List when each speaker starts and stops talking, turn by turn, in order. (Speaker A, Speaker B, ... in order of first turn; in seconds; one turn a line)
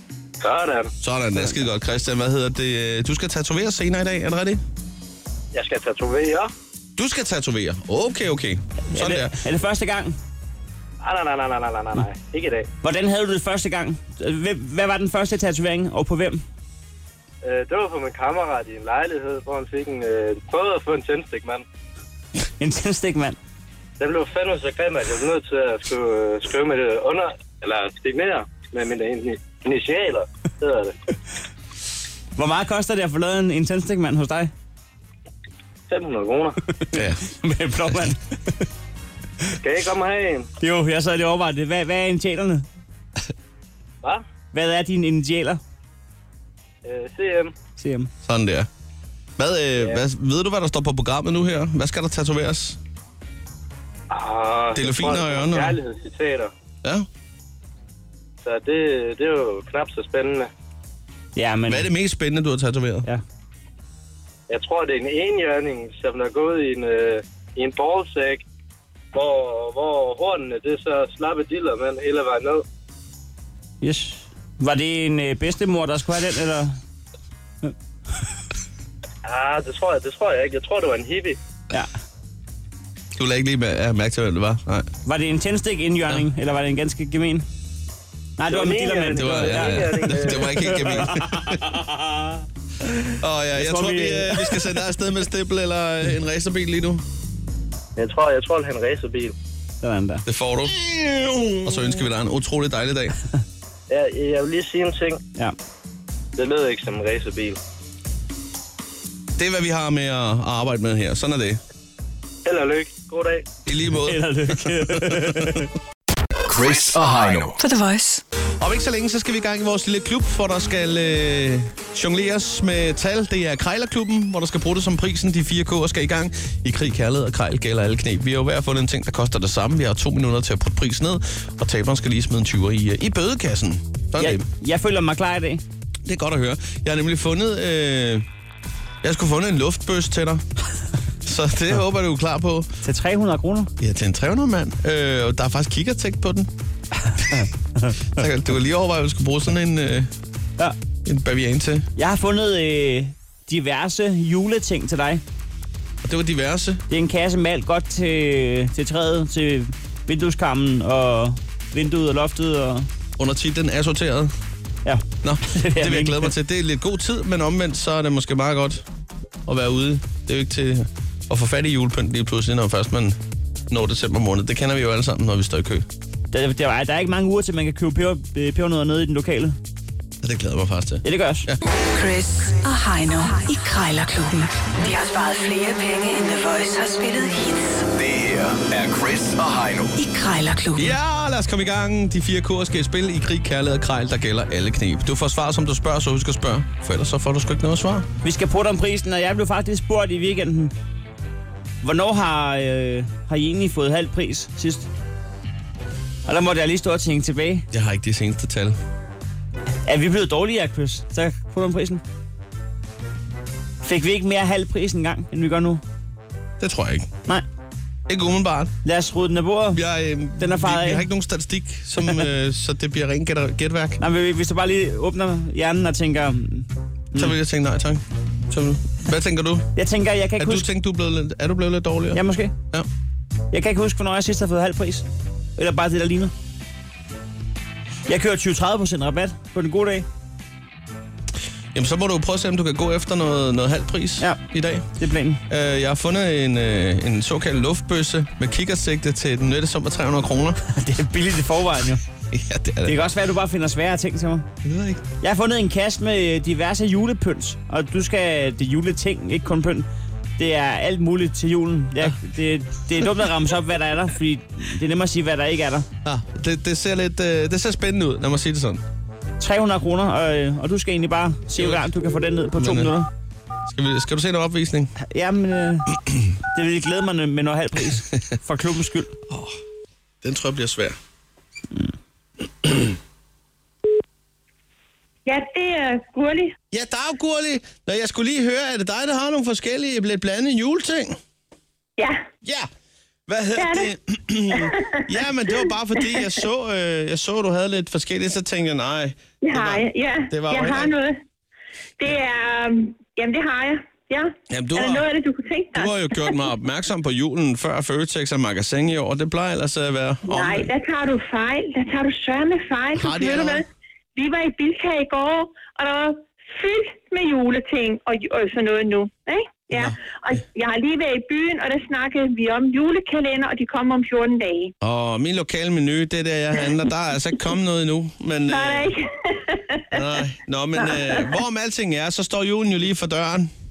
Speaker A: 0.4-0.9
Speaker B: 1.0-4.6
Speaker A: 5.5-6.5
Speaker B: 7.0-9.4
Speaker C: 8.9-10.2
Speaker A: 11.0-12.7
Speaker C: 12.8-16.4
Speaker A: 17.4-21.6
Speaker C: 22.6-23.4
Speaker A: 24.0-30.9
Speaker C: 32.4-34.5
Speaker A: 35.9-36.6
Speaker C: 36.8-38.6
Speaker B: 36.9-37.3
Speaker A: 39.6-40.5
Speaker C: 40.6-42.7
Speaker C: 44.5-45.6
Speaker A: 46.8-47.5
Speaker C: 47.8-48.1
Speaker B: 48.2-48.7
Speaker B: 49.4-52.8
Speaker A: 54.1-56.5
Speaker B: 54.7-55.8
Speaker A: 58.4-60.5
Speaker C: 61.4-61.9
Speaker B: 61.7-63.1
Speaker A: 64.5-68.5
Speaker A: 69.1-72.7
Speaker C: 73.8-76.8
Speaker A: 79.2-81.4
Speaker B: 83.2-84.9
Speaker C: 85.1-87.5
Speaker C: 88.4-92.3
Speaker A: 88.5-90.7
Speaker B: 89.1-91.6
Speaker B: 93.2-97.0
Speaker C: 93.6-94.7
Speaker A: 98.0-99.3
Speaker C: 99.8-100.2
Speaker B: 100.3-103.2
Speaker A: 103.9-105.2
Speaker A: 106.4-107.6
Speaker B: 109.4-111.6
Speaker A: 112.5-113.5
Speaker B: 113.7-115.6
Speaker C: 114.0-115.7
Speaker D: 116.5-117.6
Speaker E: 117.6-118.2
Speaker B: 118.6-134.5
Speaker C: 134.2-135.6
Speaker B: 136.1-138.2
Speaker B: 139.0-140.4
Speaker B: 141.2-142.7
Speaker C: 142.8-143.7
Speaker B: 143.8-146.5
Speaker C: 147.1-147.9
Speaker B: 148.1-150.1
Speaker B: 151.1-151.9
Speaker C: 152.0-155.2
Speaker B: 156.0-156.8
Speaker C: 156.9-162.9
Speaker B: 163.2-164.3
Speaker C: 164.8-166.3
Speaker B: 165.2-168.8
Speaker B: 169.5-173.2
Speaker B: 173.7-175.9
Speaker C: 176.3-179.6
Speaker B: 180.2-181.6
Speaker C: 181.0-181.5
Speaker E: 181.9-187.8
Speaker D: 187.9-190.0
Speaker E: 190.0-190.9
Speaker B: 190.8-198.1
Speaker C: 198.2-200.7
Speaker C: 201.8-204.9
Speaker C: 206.3-207.7
Speaker B: 207.7-208.8
Speaker C: 209.9-212.0
Speaker C: 213.8-215.8
Speaker B: 216.6-217.1
Speaker B: 218.1-218.7
Speaker C: 218.8-219.8
Speaker B: 219.7-224.0
Speaker C: 220.4-221.1
Speaker C: 224.0-227.3
Speaker B: 227.2-229.7
Speaker C: 229.8-230.7
Speaker B: 230.4-232.9
Speaker C: 232.1-232.5
Speaker C: 233.5-235.1
Speaker C: 235.6-236.3
Speaker C: 238.1-240.1
Speaker B: 241.7-244.9
Speaker C: 245.0-245.4
Speaker B: 245.5-250.6
Speaker C: 250.7-252.0
Speaker B: 252.3-253.1
Speaker C: 252.8-254.5
Speaker B: 254.6-255.0
Speaker C: 255.2-259.9
Speaker C: 260.4-265.9
Speaker B: 266.0-268.8
Speaker C: 269.4-273.1
Speaker B: 271.6-271.9
Speaker B: 272.6-272.9
Speaker B: 273.7-274.9
Speaker C: 275.0-275.9
Speaker C: 276.5-279.1
Speaker B: 279.3-279.6
Speaker B: 280.2-281.0
Speaker F: 285.3-286.5
Speaker B: 286.7-291.2
Speaker F: 292.0-292.2
Speaker B: 292.4-292.7
Speaker B: 293.3-300.9
Speaker F: 293.6-293.9
Speaker F: 294.5-295.0
Speaker F: 295.6-296.3
Speaker F: 299.4-301.2
Speaker F: 302.0-306.3
Speaker B: 304.5-305.1
Speaker B: 305.7-310.7
Speaker F: 310.3-313.6
Speaker B: 313.0-313.6
Speaker F: 314.2-324.7
Speaker B: 319.7-320.0
Speaker B: 324.8-328.9
Speaker F: 328.5-330.0
Speaker B: 329.9-333.5
Speaker F: 330.8-331.3